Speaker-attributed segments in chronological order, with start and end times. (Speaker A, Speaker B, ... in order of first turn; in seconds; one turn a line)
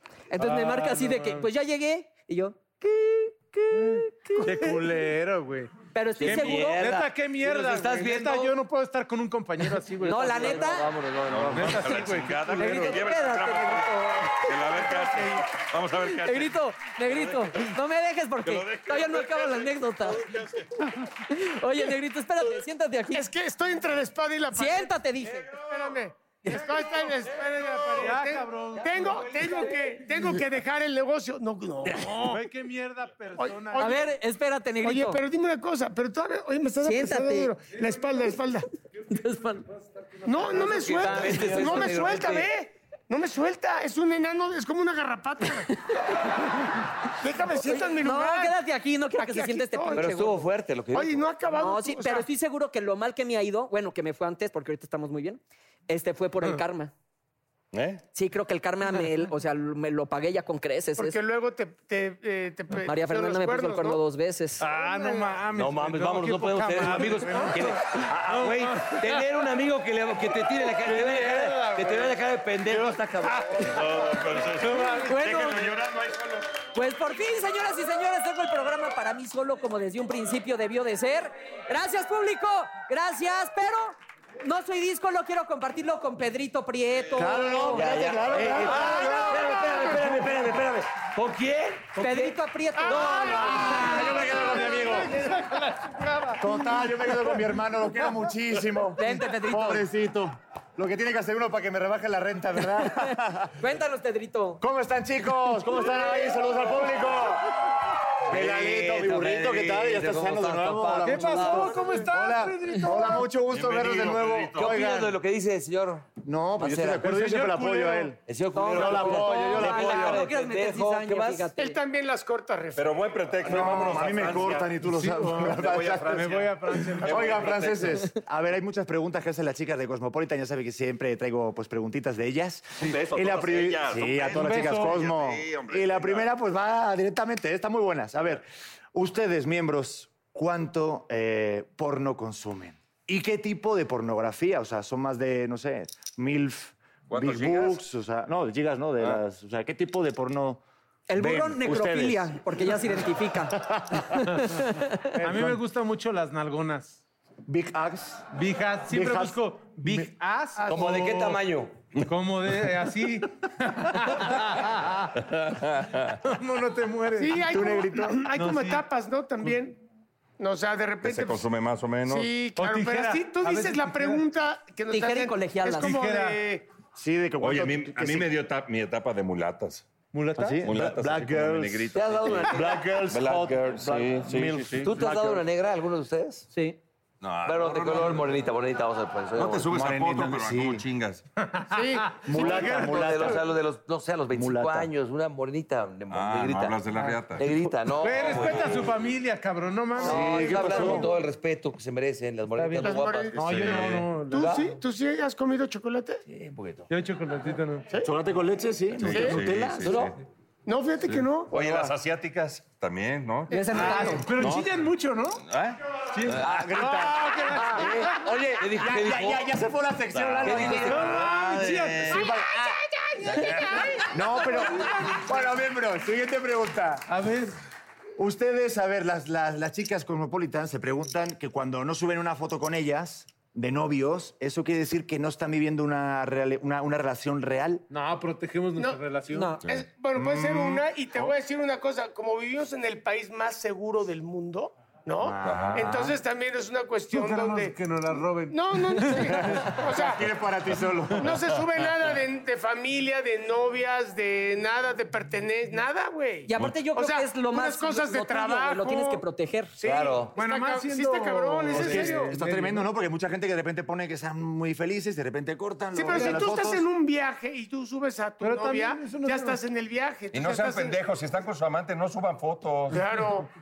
Speaker A: 0.3-4.8
Speaker B: 0.4-1.5
Speaker B: 3.8-10.8
Speaker A: 5.9-6.8
Speaker C: 6.2-8.6
Speaker A: 10.0-10.9
Speaker C: 10.1-12.0
Speaker D: 11.3-17.8
Speaker B: 11.5-13.1
Speaker A: 12.6-14.8
Speaker B: 14.9-15.2
Speaker A: 16.0-20.3
Speaker D: 18.4-20.8
Speaker A: 21.1-23.3
Speaker E: 23.1-25.0
Speaker A: 24.5-25.5
Speaker D: 25.5-25.9
Speaker E: 25.6-32.4
Speaker B: 26.5-26.8
Speaker B: 27.9-29.9
Speaker B: 32.2-34.1
Speaker E: 33.4-34.0
Speaker A: 33.8-35.2
Speaker E: 34.8-38.7
Speaker A: 36.8-37.5
Speaker A: 39.1-39.6
Speaker E: 40.3-45.7
Speaker B: 40.3-42.1
Speaker C: 40.7-42.5
Speaker E: 47.1-48.5
Speaker A: 47.6-50.4
Speaker E: 49.2-50.3
Speaker C: 50.0-51.2
Speaker E: 50.9-52.3
Speaker A: 51.5-56.9
Speaker D: 57.7-58.0
Speaker A: 58.1-61.2
Speaker E: 61.0-64.0
Speaker A: 62.9-64.7
Speaker B: 64.6-69.5
Speaker E: 64.7-65.4
Speaker C: 65.5-73.7
Speaker B: 70.7-75.6
Speaker D: 73.7-76.5
Speaker A: 75.0-75.7
Speaker A: 76.7-87.9
Speaker F: 87.1-89.4
Speaker C: 87.7-92.3
Speaker A: 88.6-90.0
Speaker A: 92.0-94.7
Speaker E: 92.8-95.0
Speaker B: 93.2-97.5
Speaker F: 93.5-95.1
Speaker F: 96.4-103.6
Speaker A: 99.0-99.8
Speaker A: 103.6-104.6
Speaker F: 104.6-107.5
Speaker F: 108.3-115.2
Speaker C: 108.3-111.8
Speaker B: 111.0-113.3
Speaker D: 113.5-114.8
Speaker C: 114.5-117.2
Speaker F: 116.2-118.2
Speaker B: 117.1-118.1
Speaker C: 118.2-121.5
Speaker A: 118.5-121.8
Speaker F: 118.7-120.2
Speaker E: 121.6-123.1
Speaker D: 122.8-124.8
Speaker F: 123.4-126.4
Speaker B: 124.8-127.7
Speaker D: 125.4-128.0
Speaker F: 127.0-150.6
Speaker D: 132.8-136.3
Speaker B: 134.3-135.1
Speaker D: 147.1-147.8
Speaker A: 151.1-155.1
Speaker F: 151.2-152.6
Speaker F: 153.6-154.1
Speaker B: 155.2-157.0
Speaker F: 155.2-155.6
Speaker F: 157.5-158.3
Speaker B: 158.3-161.4
Speaker F: 158.9-160.1
Speaker C: 160.6-161.8
Speaker B: 162.0-165.2
Speaker D: 165.2-166.2
Speaker B: 166.2-167.5
Speaker E: 167.2-169.8
Speaker F: 167.4-168.3
Speaker B: 168.3-168.8
Speaker E: 170.4-171.5
Speaker D: 171.0-172.4
Speaker E: 172.1-176.6
Speaker B: 172.6-174.2
Speaker A: 174.9-175.9
Speaker B: 175.8-176.4
Speaker F: 176.9-178.3
Speaker D: 177.4-179.9
Speaker B: 180.1-180.8
Speaker F: 180.4-185.4
Speaker D: 180.6-184.9
Speaker C: 181.9-183.0
Speaker C: 183.7-184.2
Speaker C: 184.8-186.5
Speaker D: 187.2-188.3
Speaker C: 187.4-189.7
Speaker D: 189.4-191.2
Speaker F: 189.7-190.8
Speaker B: 191.6-193.4
Speaker F: 192.1-193.5
Speaker C: 192.4-196.8
Speaker F: 194.3-194.9
Speaker D: 196.1-197.5
Speaker B: 196.9-197.2
Speaker C: 197.4-198.9
Speaker B: 197.9-201.1
Speaker F: 200.0-201.1
Speaker C: 200.0-203.7
Speaker B: 202.6-204.6
Speaker E: 202.8-206.2
Speaker D: 203.4-204.1
Speaker C: 204.3-204.7
Speaker C: 206.3-206.9
Speaker B: 206.9-207.9
Speaker F: 208.0-210.0
Speaker D: 209.0-210.1
Speaker E: 209.1-209.4
Speaker C: 209.7-210.2
Speaker E: 210.7-211.9
Speaker D: 211.5-214.7
Speaker A: 213.5-214.3
Speaker E: 213.5-214.1
Speaker B: 213.7-215.4
Speaker D: 215.4-215.8
Speaker B: 216.1-218.4
Speaker F: 216.4-221.4
Speaker C: 217.7-219.5
Speaker D: 220.1-222.3
Speaker C: 220.5-221.1
Speaker B: 220.6-222.3
Speaker F: 222.0-222.7
Speaker E: 222.2-224.1
Speaker F: 224.1-227.1
Speaker B: 224.3-225.5
Speaker B: 227.1-227.6
Speaker F: 228.2-237.9
Speaker B: 237.9-239.6
Speaker E: 238.8-239.0
Speaker A: 239.3-239.6
Speaker E: 239.6-247.8
Speaker F: 240.2-241.3
Speaker F: 245.2-246.2
Speaker D: 245.4-245.8
Speaker B: 247.1-249.7
Speaker E: 248.5-250.3
Speaker F: 249.4-251.5
Speaker E: 251.2-259.2
Speaker A: 256.5-259.7
Speaker D: 256.6-256.8
Speaker E: 259.8-262.4
Speaker C: 259.8-260.3
Speaker B: 260.3-262.9
Speaker F: 261.7-266.9
Speaker E: 265.9-271.0
Speaker B: 268.4-269.6
Speaker D: 270.3-273.0
Speaker E: 272.9-273.5